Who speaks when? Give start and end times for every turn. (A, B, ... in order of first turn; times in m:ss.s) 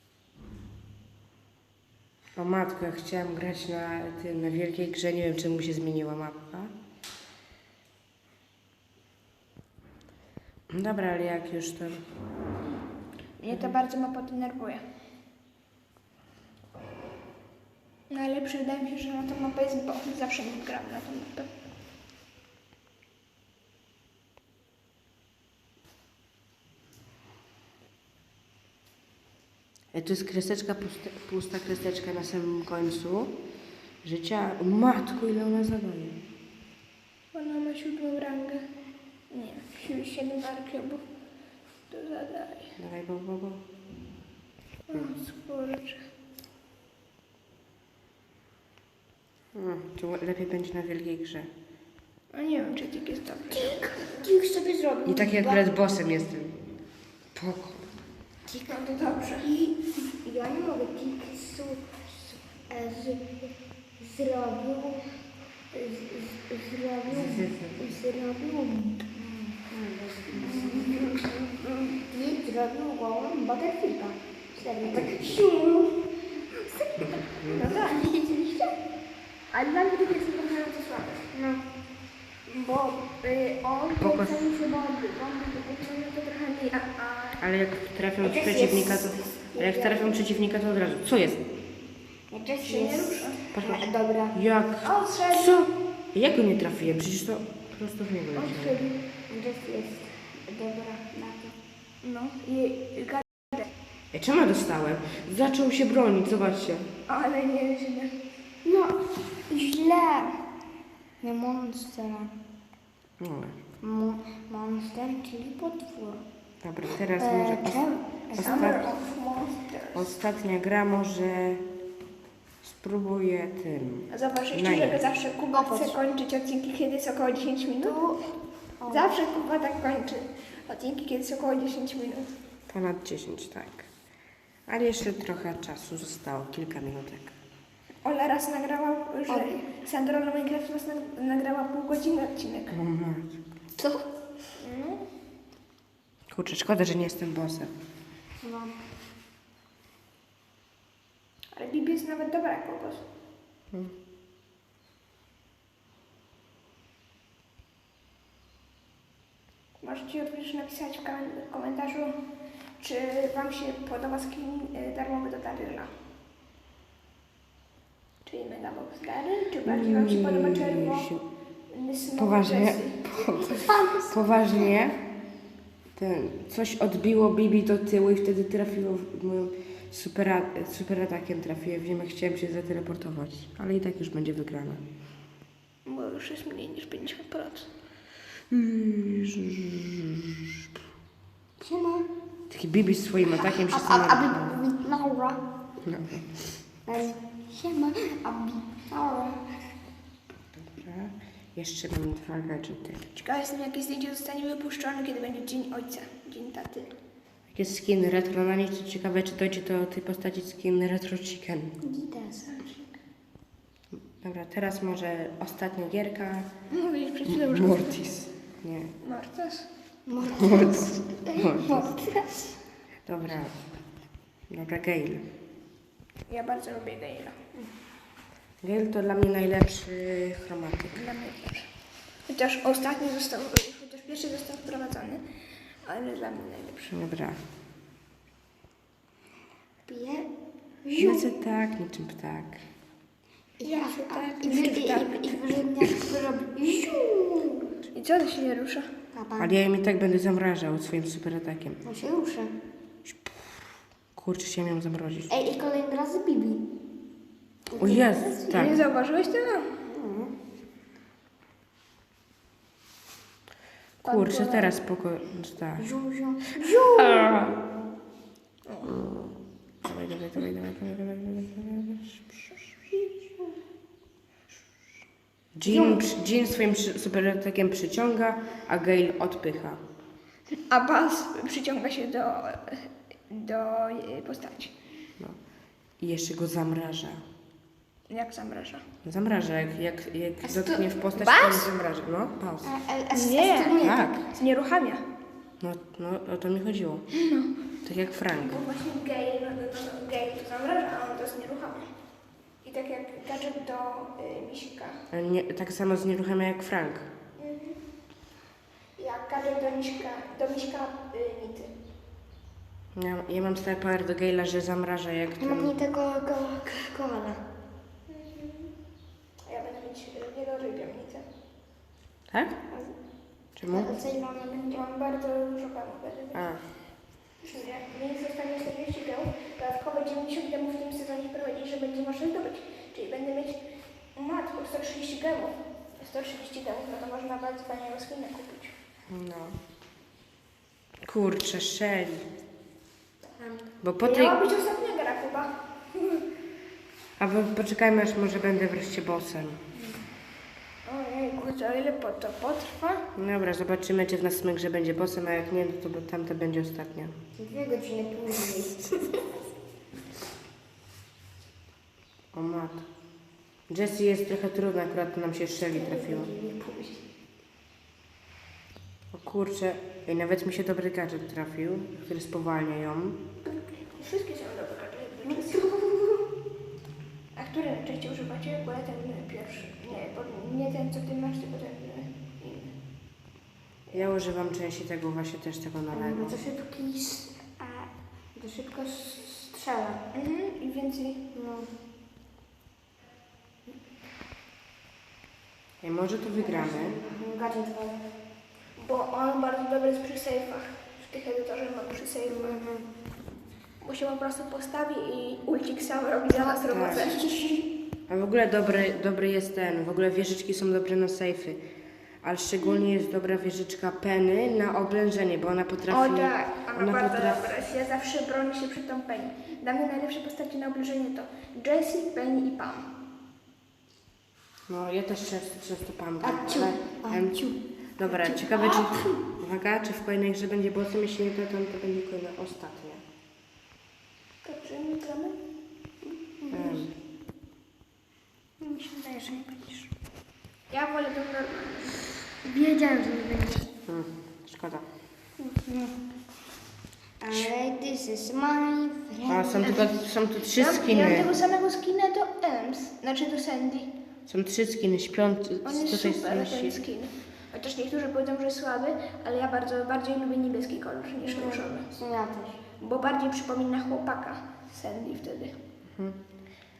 0:02.4-0:06.7 A
0:10.7-0:12.0 A
0:13.4-0:14.8 B
0:18.1-0:21.5 B
0:29.9-0:33.3 A
0:34.0-0:36.2 A
0:37.3-0:38.6 B
0:39.3-0:41.0 B
0:41.9-0:42.7 B
0:42.8-0:43.6 A
0:44.9-0:46.0 B
0:49.5-0:51.5 A
0:52.3-0:54.3 B
0:53.5-0:55.6 C
0:55.0-0:56.6 A
0:57.3-0:57.9 A
0:58.5-0:58.7 C
0:58.6-0:59.5 B
0:59.4-1:03.3 C
1:04.0-1:05.0 C
1:05.7-1:11.1 C
1:07.1-1:07.8 A
1:10.4-1:12.0 B
1:12.1-1:16.1 C
1:14.8-1:15.4 A
1:17.1-1:17.6 A
1:17.5-1:18.1 B
1:17.6-1:18.7 C
1:19.5-1:21.3 B
1:21.3-1:21.6 C
1:22.5-1:27.4 B
1:24.0-1:24.5 A
1:27.4-1:31.4 A
1:28.2-1:30.2 C
1:32.3-1:34.4 C
1:32.6-1:33.4 B
1:33.5-1:38.8 A
1:34.8-1:35.7 B
1:38.3-1:38.9 B
1:39.3-1:41.6 C
1:42.0-1:43.6 B
1:44.1-1:46.9 A
1:47.1-1:48.1 B
1:48.6-1:50.3 C
1:51.2-1:52.3 C
1:53.2-1:53.6 A
1:53.8-1:56.2 C
1:56.6-1:58.8 A
1:57.2-1:58.8 C
1:58.4-2:00.1 B
1:59.9-2:01.6 A
2:02.6-2:05.0 A
2:04.1-2:08.0 B
2:05.5-2:06.0 C
2:07.8-2:09.1 C
2:08.9-2:12.3 B
2:12.7-2:13.9 A
2:14.7-2:17.3 A
2:18.0-2:22.7 B
2:19.3-2:19.6 C
2:22.7-2:23.4 A
2:23.8-2:24.0 C
2:24.6-2:25.0 B
2:26.3-2:27.7 A
2:28.4-2:28.7 C
2:31.5-2:33.0 B
2:39.8-2:42.2 B
2:42.8-2:45.9 B
2:48.2-2:51.1 B
2:49.6-2:51.2 A
2:51.7-2:53.6 B
2:52.2-2:55.0 A
2:53.6-2:54.6 C
2:55.9-3:04.8 A
3:05.8-3:07.7 B
3:08.5-3:10.5 A
3:11.6-3:12.1 C
3:12.5-3:14.6 A
3:13.3-3:15.4 C
3:15.8-3:16.6 A
3:16.8-3:19.5 C
3:20.7-3:23.0 A
3:23.1-3:26.9 B
3:27.5-3:31.8 A
3:31.8-3:32.5 C
3:32.4-3:33.0 B
3:34.2-3:36.5 A
3:36.7-3:38.0 B
3:37.2-3:38.9 A
3:39.0-3:39.7 B
3:40.1-3:41.4 C
3:40.4-3:42.1 A
3:41.7-3:41.9 B
3:41.9-3:42.3 C
3:43.0-3:43.7 A
3:44.5-3:45.2 A
3:46.3-3:47.3 B
3:48.6-3:51.0 A
3:50.9-3:51.6 B
3:52.3-3:55.2 B
3:55.8-3:56.8 B
3:56.8-3:57.4 A
3:59.8-4:00.3 C
4:00.8-4:01.3 C
4:01.0-4:02.6 A
4:03.6-4:07.8 C
4:03.6-4:05.4 B
4:07.9-4:08.9 B
4:09.1-4:09.5 C
4:09.4-4:11.8 A
4:11.8-4:12.5 C
4:13.0-4:13.3 A
4:14.1-4:15.3 A
4:15.3-4:16.7 C
4:17.7-4:18.8 C
4:17.8-4:18.7 A
4:18.5-4:19.7 B
4:19.8-4:20.3 C
4:24.0-4:24.8 B
4:24.0-4:25.9 A
4:25.8-4:27.5 C
4:26.8-4:27.6 A
4:28.6-4:28.9 B
4:28.8-4:32.2 A
4:32.9-4:33.5 C
4:35.5-4:39.8 A
4:35.6-4:36.0 C
4:40.7-4:44.7 B
4:46.0-4:47.2 A
4:48.1-4:48.8 B
4:49.0-4:52.7 A
4:50.6-4:51.7 B
4:52.6-4:54.2 C
4:53.1-4:55.0 B
4:53.8-4:54.2 A
4:55.6-4:57.0 A
4:57.1-4:57.5 B
4:57.8-4:58.6 A
4:58.4-5:01.9 B
5:02.6-5:05.0 B
5:05.1-5:07.1 A
5:07.4-5:07.8 B
5:09.0-5:11.7 B
5:12.9-5:15.7 A
5:15.4-5:17.4 C
5:18.1-5:18.7 B
5:19.5-5:21.2 B
5:22.3-5:22.6 A
5:23.5-5:23.9 A
5:23.7-5:24.8 C
5:24.5-5:26.4 B
5:26.3-5:26.6 A
5:27.4-5:33.6 B
5:34.1-5:38.7 B
5:39.1-5:39.6 A
5:41.0-5:42.2 A
5:43.4-5:43.6 C
5:43.8-5:44.4 A
5:44.0-5:46.2 B
5:47.2-5:49.6 A
5:50.8-5:53.0 B
5:53.1-5:57.1 A
5:57.4-5:59.0 C
6:02.3-6:02.8 A
6:03.7-6:06.3 A
6:05.7-6:07.0 C
6:09.1-6:13.2 A
6:13.5-6:15.7 B
6:15.2-6:16.3 C
6:17.3-6:22.7 B
6:23.9-6:26.4 A
6:25.9-6:30.0 C
6:30.1-6:31.2 B
6:31.3-6:31.7 C
6:35.8-6:37.0 A
6:36.4-6:38.1 C
6:38.8-6:42.6 B
6:42.2-6:42.9 C
6:43.8-6:47.5 B
6:46.3-6:47.7 C
6:46.7-6:47.1 A
6:48.1-6:51.6 A
6:52.2-6:57.4 A
6:55.9-7:02.9 B
7:04.7-7:07.4 A
7:06.2-7:09.2 C
7:08.0-7:13.0 A
7:14.4-7:15.4 B
7:16.0-7:16.8 C
7:16.5-7:16.9 A
7:18.7-7:19.7 C
7:20.7-7:22.0 B
7:22.4-7:23.7 C
7:23.9-7:24.8 A
7:27.2-7:29.9 C
7:29.3-7:31.3 A
7:30.5-7:33.9 B
7:34.2-7:36.8 A
7:35.6-7:42.0 B
7:41.2-7:42.6 C
7:42.8-7:45.6 B
7:45.9-7:46.2 A